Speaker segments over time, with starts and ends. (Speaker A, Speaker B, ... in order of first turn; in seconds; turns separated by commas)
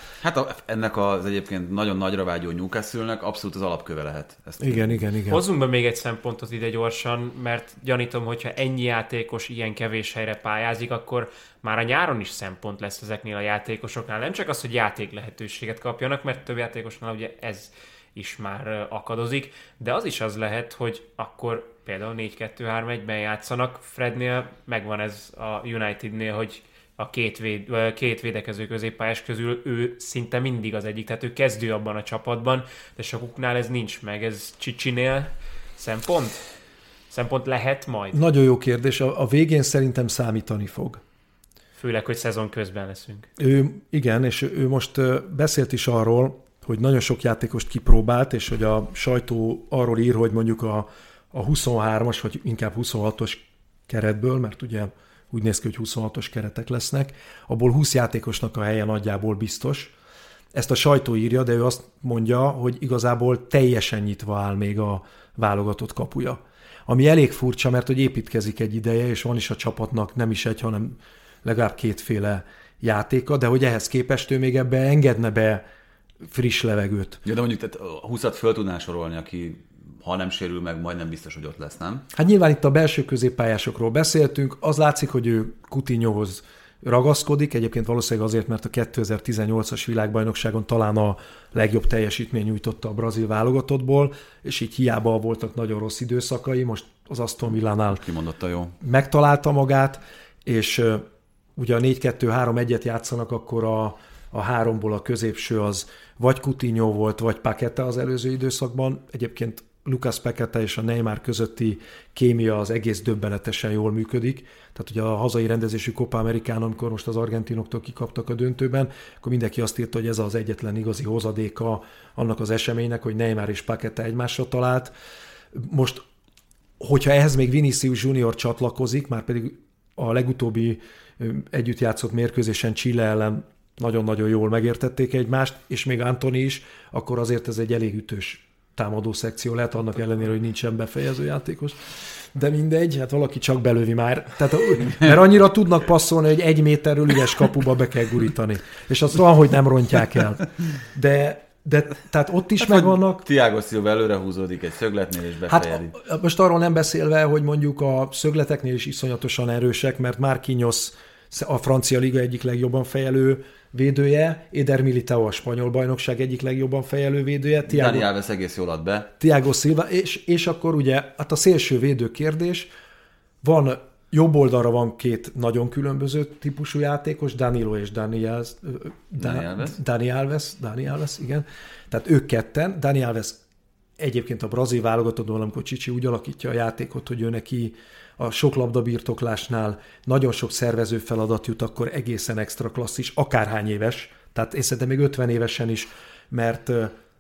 Speaker A: 0.2-5.0, Speaker B: 4.6-5.4, Speaker C: 5.3-36.4, Speaker C: 37.1-38.2, Speaker B: 38.1-41.0, Speaker C: 41.8-43.3, Speaker B: 43.4-59.9, Speaker B: 60.5-75.6, Speaker B: 76.3-77.2, Speaker A: 77.2-82.1, Speaker B: 82.1-98.0, Speaker A: 97.9-98.8, Speaker B: 98.8-124.9, Speaker B: 125.5-126.0, Speaker B: 126.8-153.2, Speaker A: 152.6-155.9, Speaker B: 155.5-168.1, Speaker A: 167.7-169.1, Speaker B: 169.2-172.7, Speaker B: 173.4-183.4, Speaker A: 179.2-179.8, Speaker B: 184.0-196.9